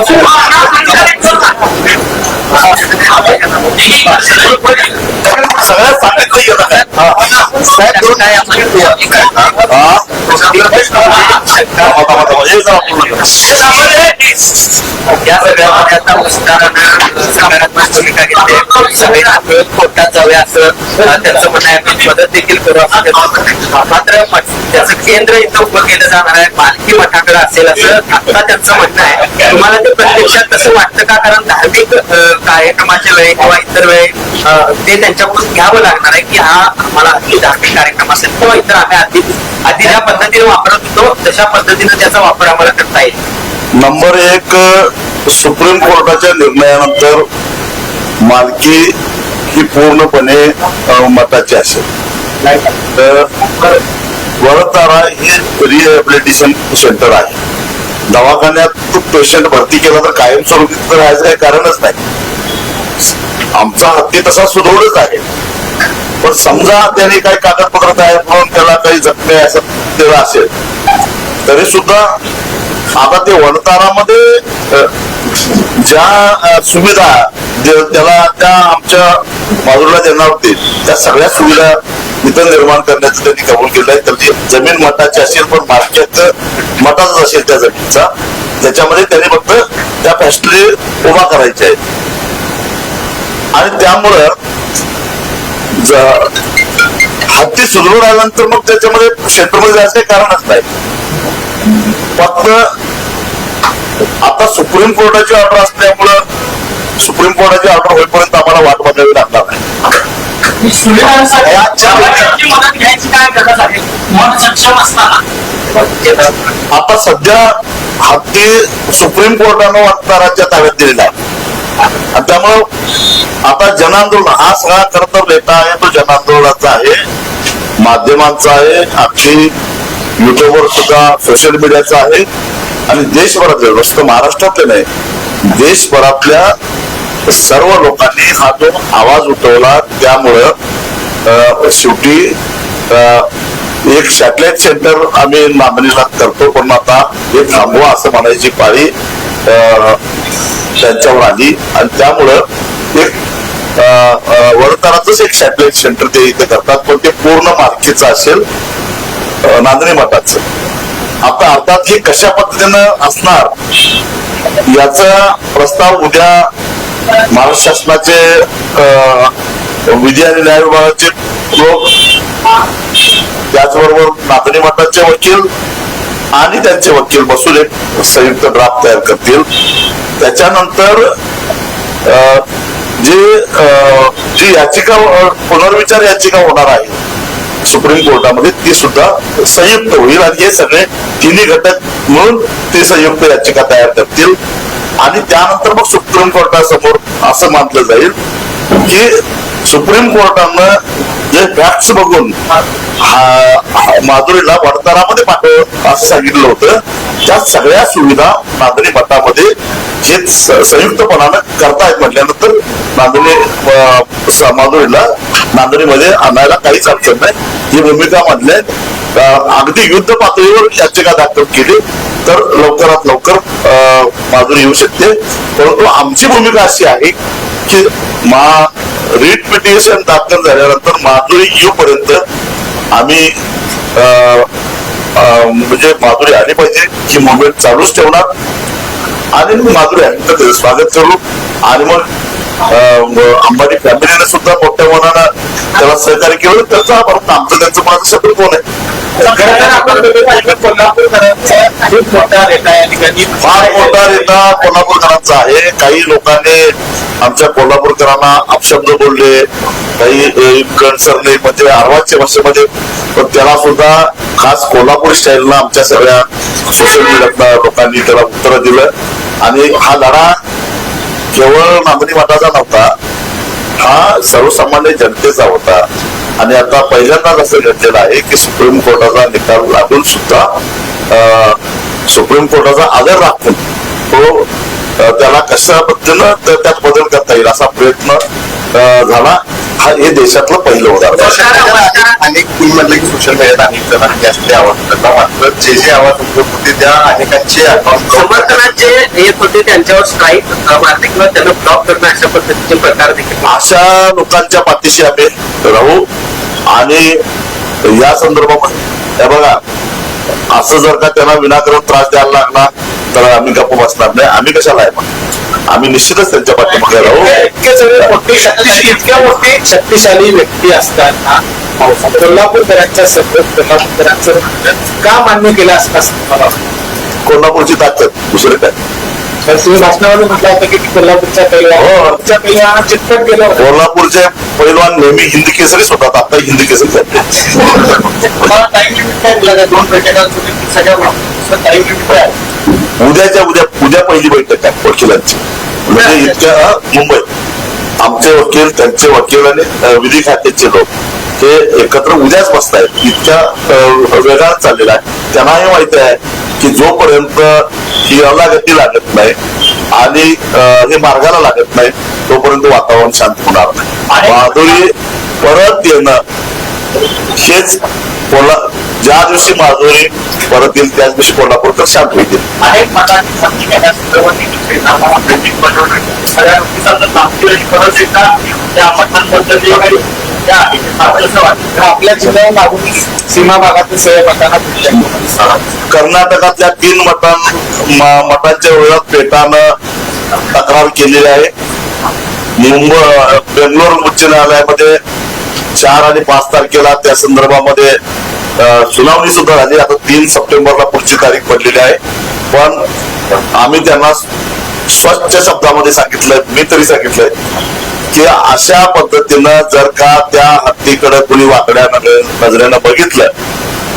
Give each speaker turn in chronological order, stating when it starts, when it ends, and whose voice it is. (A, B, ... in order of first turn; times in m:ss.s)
0:00.4-0:01.3 A
0:03.7-0:04.9 A
0:04.1-0:04.6 B
0:05.2-0:07.0 B
0:07.0-0:09.6 A
0:09.7-0:13.6 B
0:10.3-0:11.6 A
0:13.4-0:14.3 A
0:15.1-0:43.2 A
0:43.8-0:47.2 B
0:48.2-0:48.9 B
0:49.5-0:51.8 B
0:53.0-0:53.8 B
0:54.4-0:57.4 B
0:58.1-1:02.0 B
1:03.6-1:05.2 B
1:06.2-1:10.5 B
1:11.5-1:12.1 B
1:13.0-1:14.9 B
1:15.5-1:28.1 B
1:28.6-1:31.8 B
1:33.6-1:34.3 B
1:35.8-1:36.3 B
1:37.3-1:40.7 B
1:42.2-1:42.6 B
1:44.2-1:46.2 B
1:47.0-1:49.6 B
1:56.7-1:57.5 B
1:58.0-2:01.1 B
2:02.1-2:02.6 B
2:03.5-2:07.0 B
2:07.8-2:09.5 B
2:10.2-2:12.3 B
2:12.9-2:14.9 B
2:15.5-2:16.5 B
2:17.3-2:20.5 B
2:21.3-2:22.3 B
2:22.9-2:23.3 B
2:23.9-2:28.9 B
2:29.5-2:30.0 B
2:30.8-2:32.4 B
2:33.8-2:38.4 B
2:39.4-2:40.4 B
2:41.2-2:43.5 B
2:44.7-2:46.5 B
2:47.3-2:49.3 B
2:49.9-2:51.9 B
2:53.5-2:55.5 B
2:56.4-2:59.4 B
3:00.2-3:01.1 B
3:02.1-3:02.4 B
3:03.0-3:07.0 B
3:07.7-3:14.4 B
3:15.0-3:18.2 B
3:18.8-3:19.1 B
3:19.7-3:20.7 B
3:21.3-3:22.4 B
3:23.0-3:29.5 B
3:30.0-3:47.2 B
3:47.7-3:52.2 B
3:52.9-3:53.3 B
3:54.0-3:54.5 B
3:55.2-3:58.3 B
3:59.4-4:02.1 B
4:02.7-4:08.6 B
4:09.5-4:10.5 A
4:11.8-4:13.9 A
4:13.4-4:16.6 B
4:17.2-4:19.4 B
4:20.0-4:28.9 B
4:29.4-4:30.4 B
4:31.3-4:32.9 B
4:33.8-4:35.8 B
4:36.4-4:40.5 B
4:41.1-4:41.6 B
4:42.1-4:43.6 B
4:44.1-4:44.5 B
4:45.0-4:48.2 B
4:48.7-4:51.4 B
4:51.1-4:58.9 C
4:51.2-4:52.2 A
4:58.1-5:03.6 A
5:03.4-5:06.0 B
5:06.7-5:07.2 B
5:07.9-5:09.6 B
5:10.5-5:15.1 B
5:15.7-5:17.4 B
5:17.3-5:21.0 D
5:22.2-5:23.6 D
5:25.0-5:25.9 D
5:27.3-5:28.8 B
5:29.5-5:33.6 D
5:31.8-5:32.2 B
5:33.6-5:37.6 B
5:39.1-5:42.3 D
5:43.0-5:47.2 B
5:48.0-5:50.9 B
5:51.4-5:59.4 B
5:59.9-6:06.2 B
6:07.4-6:12.5 B
6:12.6-6:14.7 A
6:16.4-6:17.1 D
6:18.8-6:19.1 A
6:19.2-6:19.7 D
6:20.5-6:21.4 A
6:21.8-6:25.5 D
6:25.9-6:29.7 B
6:30.5-6:31.5 B
6:32.6-6:35.0 B
6:35.8-6:38.0 B
6:38.6-6:42.0 B
6:42.5-6:42.8 B
6:43.6-6:44.2 B
6:44.9-6:47.3 B
6:48.1-6:53.3 B